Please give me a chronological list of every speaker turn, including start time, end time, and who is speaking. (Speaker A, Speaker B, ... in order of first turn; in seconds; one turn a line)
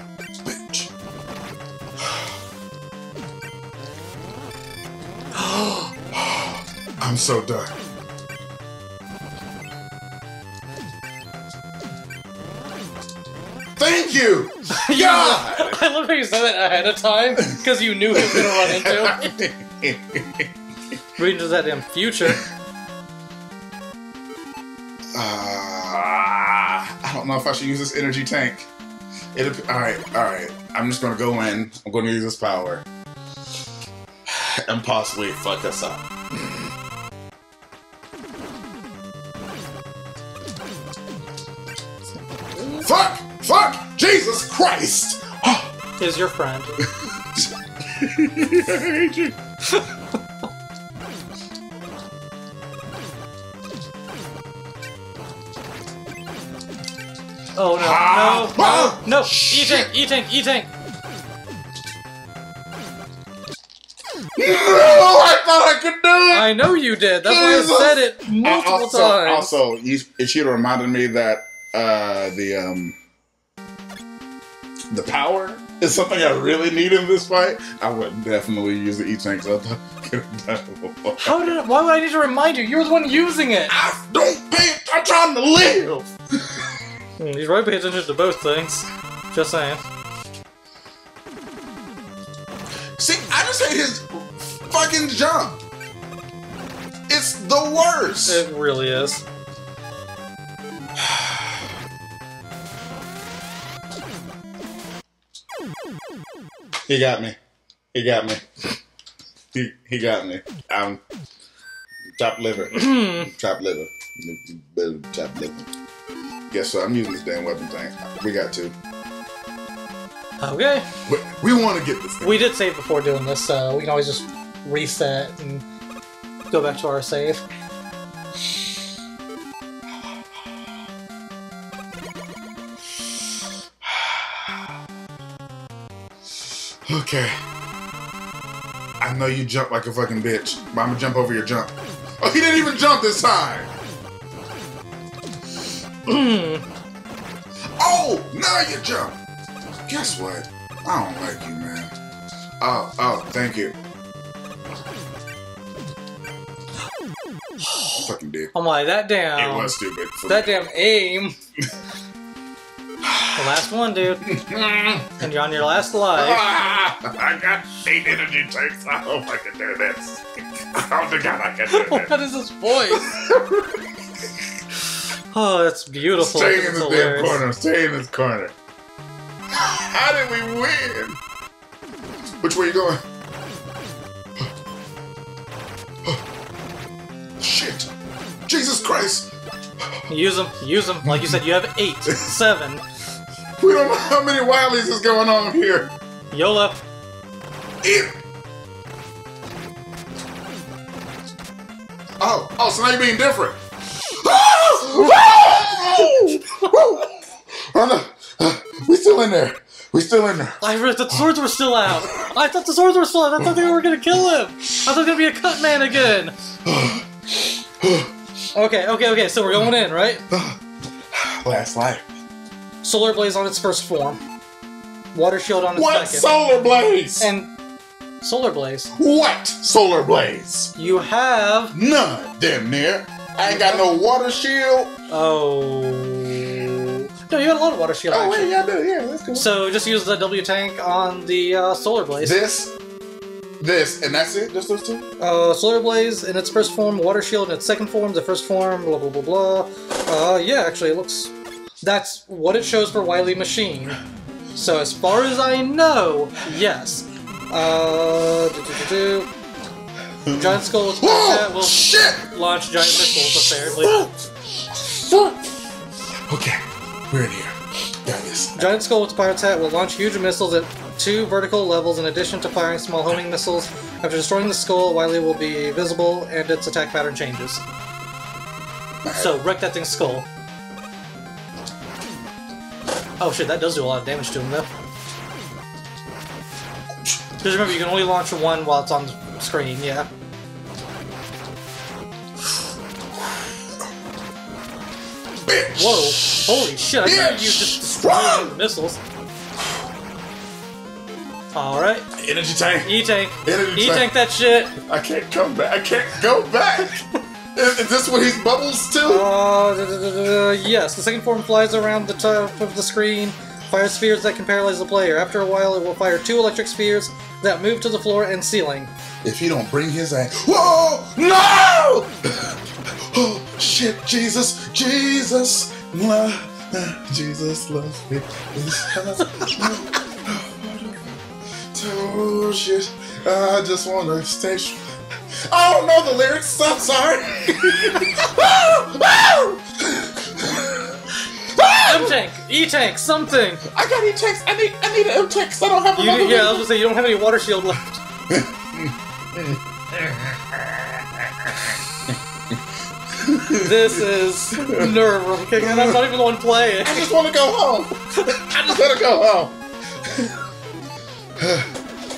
Speaker A: 0.5-0.9
Speaker B: 5.4-5.9
Speaker A: 6.1-7.7
Speaker A: 13.8-15.8
Speaker B: 14.7-19.3
Speaker A: 18.1-20.5
Speaker B: 21.2-22.4
Speaker A: 25.1-28.7
Speaker A: 29.4-32.9
Speaker A: 34.3-36.1
Speaker B: 42.5-42.9
Speaker A: 42.8-45.8
Speaker B: 46.0-46.8
Speaker A: 46.8-49.4
Speaker B: 57.5-60.7
Speaker A: 57.7-59.9
Speaker A: 64.4-66.7
Speaker B: 66.3-69.5
Speaker A: 67.2-73.0
Speaker A: 74.9-81.6
Speaker B: 81.2-83.7
Speaker A: 83.7-86.6
Speaker B: 87.2-89.8
Speaker A: 93.0-95.6
Speaker A: 97.1-98.4
Speaker B: 98.3-99.2
Speaker A: 101.0-101.4
Speaker A: 106.9-107.4
Speaker A: 107.9-108.5
Speaker A: 109.5-111.0
Speaker A: 112.2-115.7
Speaker B: 112.7-113.3
Speaker A: 116.5-118.7
Speaker B: 120.4-120.9
Speaker A: 121.1-122.4
Speaker B: 122.2-125.7
Speaker B: 126.5-127.5
Speaker A: 133.8-134.7
Speaker A: 136.9-137.4
Speaker A: 139.0-143.7
Speaker B: 146.1-146.7
Speaker A: 147.8-149.2
Speaker A: 149.9-151.9
Speaker A: 152.6-153.8
Speaker B: 157.6-159.8
Speaker A: 158.0-158.5
Speaker A: 159.4-160.6
Speaker B: 160.3-161.4
Speaker A: 163.1-163.4
Speaker B: 163.4-164.2
Speaker A: 164.2-165.2
Speaker B: 165.2-166.4
Speaker A: 166.2-170.2
Speaker A: 170.8-172.1
Speaker B: 171.7-173.1
Speaker A: 172.9-173.8
Speaker B: 175.3-177.4
Speaker A: 176.2-178.6
Speaker A: 179.5-181.2
Speaker A: 182.4-183.0
Speaker A: 187.4-187.9
Speaker A: 188.5-189.3
Speaker B: 190.1-192.8
Speaker A: 191.0-191.4
Speaker A: 193.6-195.9
Speaker B: 196.3-196.8
Speaker A: 197.8-198.2
Speaker A: 202.2-203.6
Speaker A: 204.1-211.3
Speaker B: 206.0-206.7
Speaker B: 210.6-216.3
Speaker A: 211.9-212.3
Speaker A: 213.4-213.8
Speaker A: 216.7-218.1
Speaker B: 218.5-220.2
Speaker A: 220.3-220.6
Speaker A: 221.1-222.1
Speaker B: 222.8-224.2
Speaker B: 225.1-226.3
Speaker A: 225.8-227.3
Speaker B: 227.2-227.5
Speaker B: 228.2-228.9
Speaker A: 228.9-230.7
Speaker B: 230.8-231.8
Speaker A: 231.7-234.9
Speaker B: 233.4-233.9
Speaker B: 235.1-238.5
Speaker A: 238.1-239.5
Speaker B: 239.3-242.4
Speaker A: 242.2-242.8
Speaker A: 243.6-245.1
Speaker B: 245.2-254.0
Speaker B: 254.6-259.3
Speaker A: 260.3-262.3
Speaker B: 260.3-264.1
Speaker A: 262.8-265.4
Speaker A: 266.3-268.7
Speaker B: 268.6-277.6
Speaker A: 279.0-279.4
Speaker B: 279.1-280.3
Speaker B: 283.2-284.7
Speaker B: 287.4-290.1
Speaker A: 295.4-298.6
Speaker B: 295.8-299.0
Speaker B: 301.5-302.1
Speaker A: 302.2-304.1
Speaker B: 302.8-304.7
Speaker A: 304.8-306.9
Speaker A: 307.6-309.3
Speaker B: 309.1-318.9
Speaker A: 319.2-322.6
Speaker A: 323.1-331.2
Speaker A: 331.7-334.8
Speaker A: 335.5-342.1
Speaker B: 341.8-343.6
Speaker A: 343.7-346.7
Speaker B: 345.9-348.0
Speaker A: 348.3-351.8
Speaker A: 353.2-354.0
Speaker B: 353.6-357.1
Speaker A: 354.6-354.9
Speaker A: 355.6-356.1
Speaker A: 356.8-359.5
Speaker A: 360.1-360.4
Speaker A: 361.4-361.7